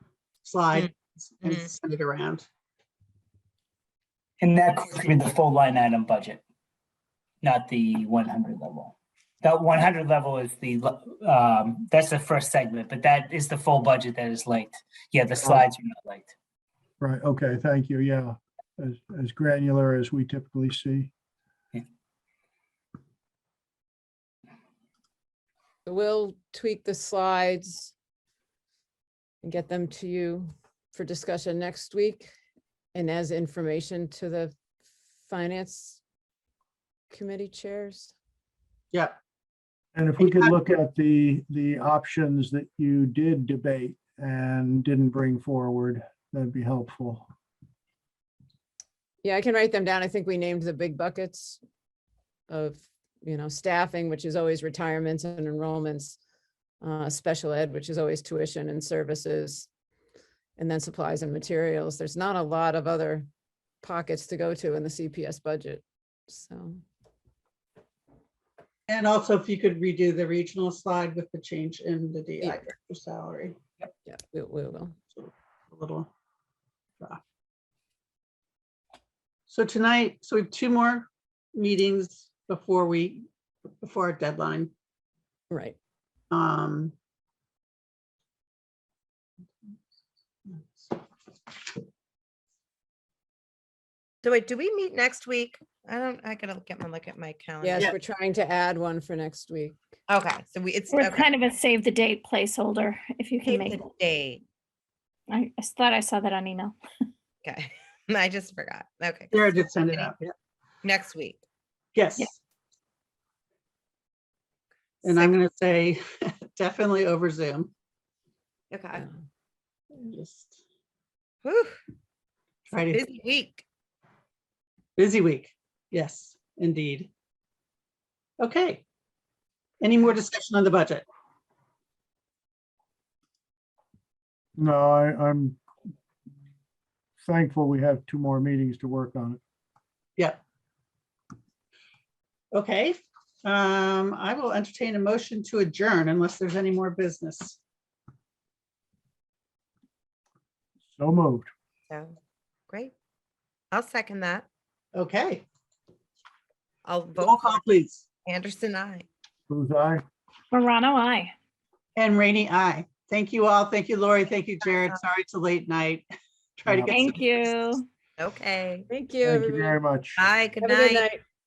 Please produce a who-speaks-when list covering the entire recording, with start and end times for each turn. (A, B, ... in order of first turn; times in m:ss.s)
0:00.4-0:02.4 A
0:04.4-0:06.4 B
0:07.4-0:16.3 B
0:17.0-0:21.1 C
0:25.8-0:27.9 D
0:29.4-0:32.3 D
0:32.9-0:34.6 D
0:35.3-0:36.0 D
0:37.1-0:38.1 D
0:39.9-0:47.2 C
0:40.2-0:40.5 A
0:49.2-0:51.6 D
0:52.5-0:56.2 D
0:56.8-0:59.7 D
1:00.6-1:03.3 D
1:03.8-1:06.8 D
1:08.9-1:13.6 A
1:14.0-1:15.0 D
1:15.1-1:16.1 A
1:19.5-1:23.2 A
1:23.8-1:24.7 A
1:25.5-1:25.8 D
1:26.3-1:26.9 A
1:34.2-1:37.9 E
1:37.6-1:39.8 D
1:40.1-1:41.2 E
1:40.9-1:43.9 F
1:43.4-1:44.4 E
1:45.3-1:46.8 F
1:47.4-1:50.1 E
1:49.3-1:50.3 A
1:50.8-1:51.4 E
1:51.9-1:52.4 A
1:55.0-1:57.7 A
1:58.7-1:59.0 E
1:59.9-2:00.6 A
2:01.4-2:01.8 E
2:02.7-2:03.0 A
2:02.9-2:03.6 E
2:05.0-2:07.1 A
2:08.4-2:08.8 A
2:09.8-2:11.0 A
2:14.6-2:15.6 C
2:17.2-2:19.4 C
2:22.5-2:27.6 A
2:30.9-2:31.5 C
2:31.9-2:32.2 E
2:33.7-2:34.4 E
2:34.9-2:35.4 A
2:36.8-2:37.6 E
2:37.2-2:38.1 A
2:38.2-2:39.1 E
2:39.5-2:40.0 C
2:40.5-2:41.3 F
2:42.0-2:46.0 A
2:46.6-2:47.6 A
2:46.7-2:46.9 C
2:46.9-2:47.8 F
2:48.2-2:48.8 E
2:48.9-2:49.8 D
2:49.2-2:50.3 C
2:50.2-2:51.0 E
2:50.6-2:51.2 D